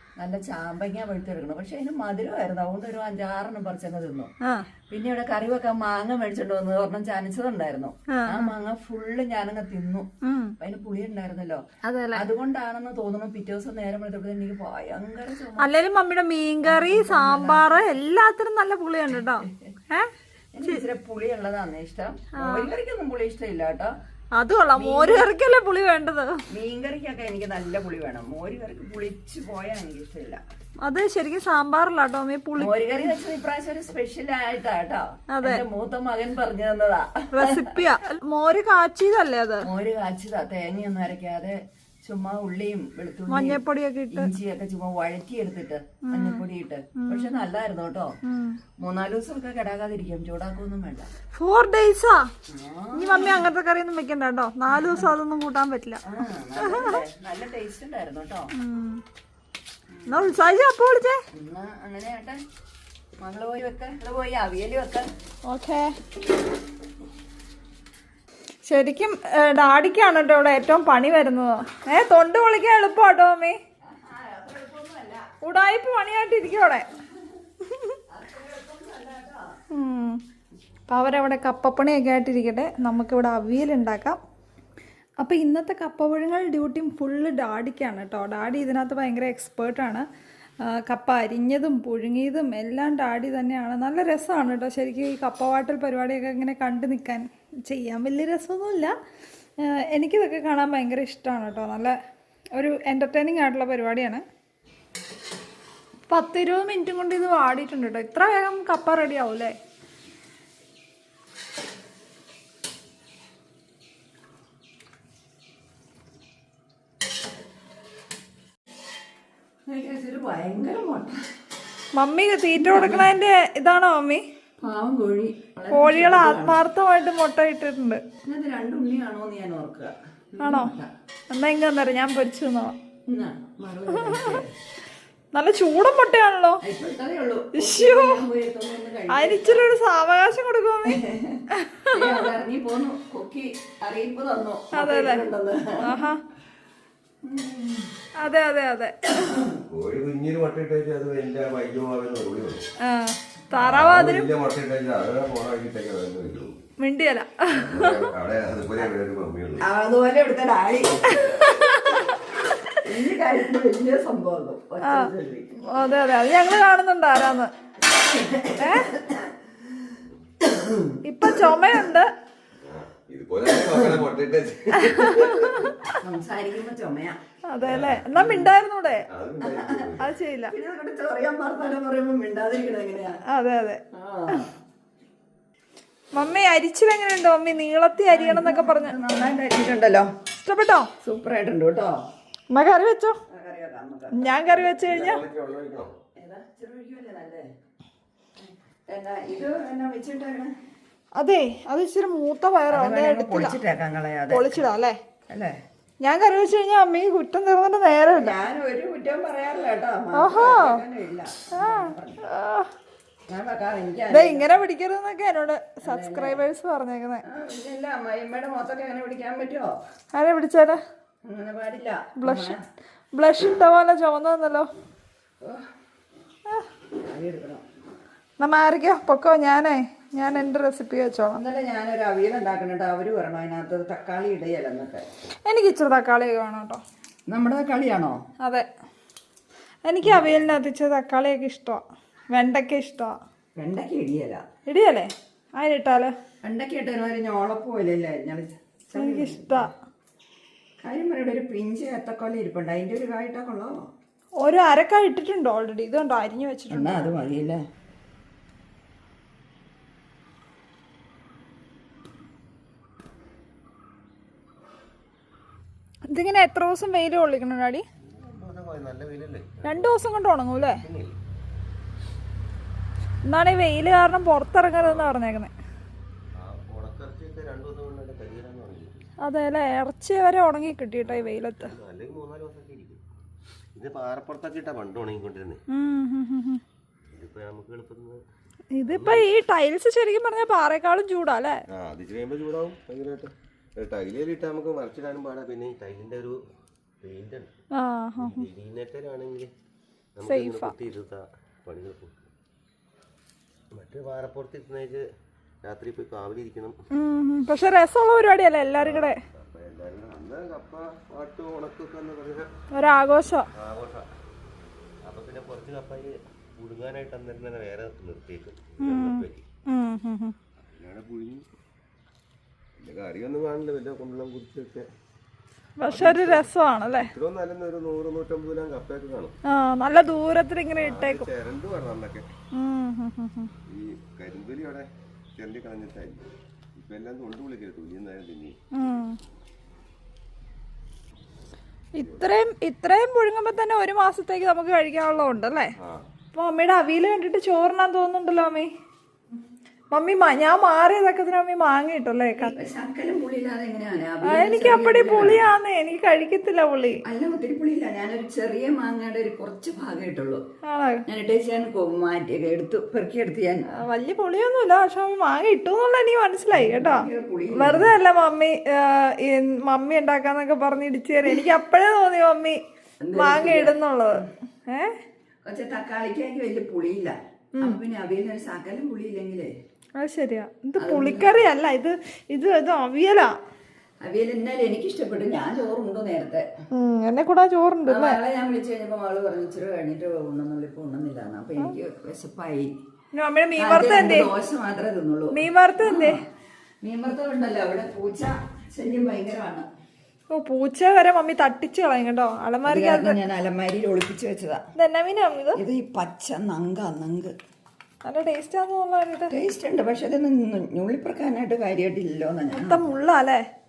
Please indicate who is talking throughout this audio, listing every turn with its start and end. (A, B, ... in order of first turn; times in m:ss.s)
0:00.2-0:04.3 A
0:04.9-0:10.1 A
0:08.1-0:08.5 B
0:10.2-0:10.5 B
0:10.6-0:11.6 A
0:11.8-0:12.2 B
0:12.2-0:15.7 A
0:15.6-0:20.1 B
0:16.6-0:17.9 A
0:20.5-0:23.9 A
0:22.4-0:22.7 B
0:24.4-0:26.4 B
0:24.8-0:25.3 A
0:26.5-0:30.4 A
0:30.8-0:32.7 B
0:32.6-0:37.6 A
0:35.3-0:35.6 B
0:37.3-0:39.7 B
0:39.6-0:48.2 A
0:43.3-0:44.3 B
0:46.1-0:46.4 B
0:47.0-0:47.3 B
0:48.2-0:48.6 B
0:48.8-0:51.1 A
0:51.3-0:52.3 B
0:52.5-0:53.5 A
0:53.0-0:56.0 B
0:54.7-0:55.1 A
0:56.0-0:58.5 A
0:56.6-0:57.0 B
0:58.6-0:59.0 B
0:59.9-1:00.3 A
1:00.1-1:01.2 B
1:01.3-1:02.4 A
1:03.2-1:05.1 A
1:05.5-1:06.0 B
1:08.7-1:13.6 B
1:13.9-1:15.3 A
1:15.4-1:16.8 B
1:18.1-1:19.5 A
1:19.7-1:20.2 B
1:20.9-1:24.2 B
1:25.2-1:30.0 B
1:30.6-1:38.9 B
1:39.6-1:42.0 B
1:42.6-1:44.2 B
1:46.1-1:49.6 B
1:59.7-2:01.2 A
2:02.0-2:04.2 B
2:02.6-2:03.1 A
2:04.6-2:06.6 A
2:05.7-2:08.0 B
2:08.3-2:10.9 A
2:10.4-2:10.8 B
2:11.3-2:12.8 B
2:13.1-2:14.5 A
2:14.0-2:14.3 B
2:15.3-2:16.6 B
2:16.6-2:19.7 A
2:17.6-2:18.2 B
2:19.1-2:21.0 B
2:20.9-2:26.0 A
2:21.6-2:22.1 B
2:24.8-2:25.3 B
2:25.8-2:26.2 B
2:27.2-2:27.9 A
2:28.2-2:29.2 B
2:29.2-2:29.6 A
2:29.7-2:32.6 C
2:32.8-2:34.3 B
2:33.6-2:36.6 C
2:36.8-2:38.0 B
2:37.5-2:39.7 C
2:39.6-2:41.7 A
2:41.3-2:41.7 B
2:42.8-2:45.5 A
2:45.7-2:47.5 B
2:47.9-2:49.6 A
2:48.6-2:48.9 B
2:50.4-2:51.5 A
2:51.0-2:52.1 B
2:52.6-2:55.7 C
2:54.9-2:55.9 B
2:56.0-2:57.2 A
2:57.5-2:59.1 B
2:57.6-2:58.3 C
2:58.2-2:58.5 A
2:59.1-3:00.1 C
2:59.4-2:59.9 A
3:00.0-3:00.5 B
3:00.5-3:03.2 A
3:03.3-3:03.8 B
3:03.9-3:04.5 A
3:06.1-3:09.0 B
3:08.1-3:10.1 A
3:10.4-3:10.9 B
3:11.0-3:12.0 A
3:12.5-3:13.2 B
3:13.3-3:14.4 A
3:14.2-3:15.2 B
3:14.5-3:16.0 C
3:16.2-3:17.4 A
3:18.4-3:20.5 A
3:21.2-3:23.6 B
3:22.7-3:24.7 A
3:24.3-3:25.0 B
3:25.3-3:25.6 A
3:26.0-3:28.4 B
3:28.2-3:32.2 A
3:30.2-3:30.8 B
3:31.5-3:32.7 B
3:33.3-3:34.5 A
3:34.1-3:37.2 B
3:35.8-3:36.4 A
3:37.3-3:39.7 A
3:40.1-3:40.8 B
3:41.2-3:42.6 A
3:42.2-3:42.6 B
3:43.1-3:44.7 B
3:47.0-3:47.6 A
3:48.4-3:51.4 B
3:51.3-3:55.1 A
3:55.5-3:56.8 B
3:57.3-3:58.2 A
3:59.9-4:03.2 B
4:00.0-4:00.3 A
4:03.6-4:04.4 A
4:04.7-4:06.1 B
4:06.4-4:09.7 A
4:08.9-4:09.7 B
4:10.8-4:13.8 A
4:14.4-4:17.1 B
4:16.7-4:17.6 A
4:26.1-4:27.8 B
4:28.0-4:30.0 C
4:29.6-4:30.8 B
4:30.7-4:31.2 C
4:33.3-4:35.5 B
4:34.8-4:35.1 C
4:36.4-4:39.0 C
4:39.2-4:41.7 B
4:41.0-4:43.0 C
4:43.8-4:45.6 C
4:45.7-4:46.6 B
4:47.1-4:48.2 C
4:48.7-4:51.6 B
4:48.9-4:49.3 C
4:51.7-4:56.4 C
4:57.0-4:57.5 C
4:57.8-4:58.4 B
4:58.2-4:59.5 C
5:00.2-5:02.3 C
5:00.2-5:00.7 B
5:03.7-5:05.0 C
5:05.6-5:06.8 C
5:06.9-5:09.2 B
5:08.8-5:12.5 C
5:12.7-5:13.5 B
5:13.6-5:14.1 C
5:15.0-5:19.4 C
5:18.8-5:20.4 B
5:20.7-5:21.5 C
5:22.8-5:24.9 C
5:25.8-5:27.1 B
5:25.8-5:26.5 C
5:27.1-5:29.3 C
5:29.5-5:31.3 B
5:30.8-5:32.3 C
5:32.5-5:33.5 B
5:33.7-5:38.6 C
5:38.8-5:39.2 B
5:42.0-5:45.7 B
5:46.3-5:48.7 B
5:49.9-5:52.5 B
5:52.4-5:55.4 A
5:54.3-5:57.0 B
5:57.0-6:00.4 A
6:00.6-6:01.0 B
6:01.1-6:03.6 A
6:03.8-6:12.6 B
6:06.5-6:07.9 A
6:13.0-6:13.8 A
6:13.2-6:15.0 B
6:15.5-6:19.5 A
6:20.0-6:23.3 B
6:20.8-6:21.3 A
6:24.0-6:26.5 A
6:26.7-6:28.2 B
6:27.9-6:32.7 A
6:33.2-6:34.3 B
6:33.6-6:36.2 A
6:35.3-6:36.2 B
6:36.8-6:39.6 A
6:40.3-6:43.2 B
6:42.6-6:44.6 A
6:44.8-6:45.6 B
6:45.6-6:47.3 A
6:48.0-6:49.3 B
6:49.3-6:52.9 A
6:52.5-6:53.4 B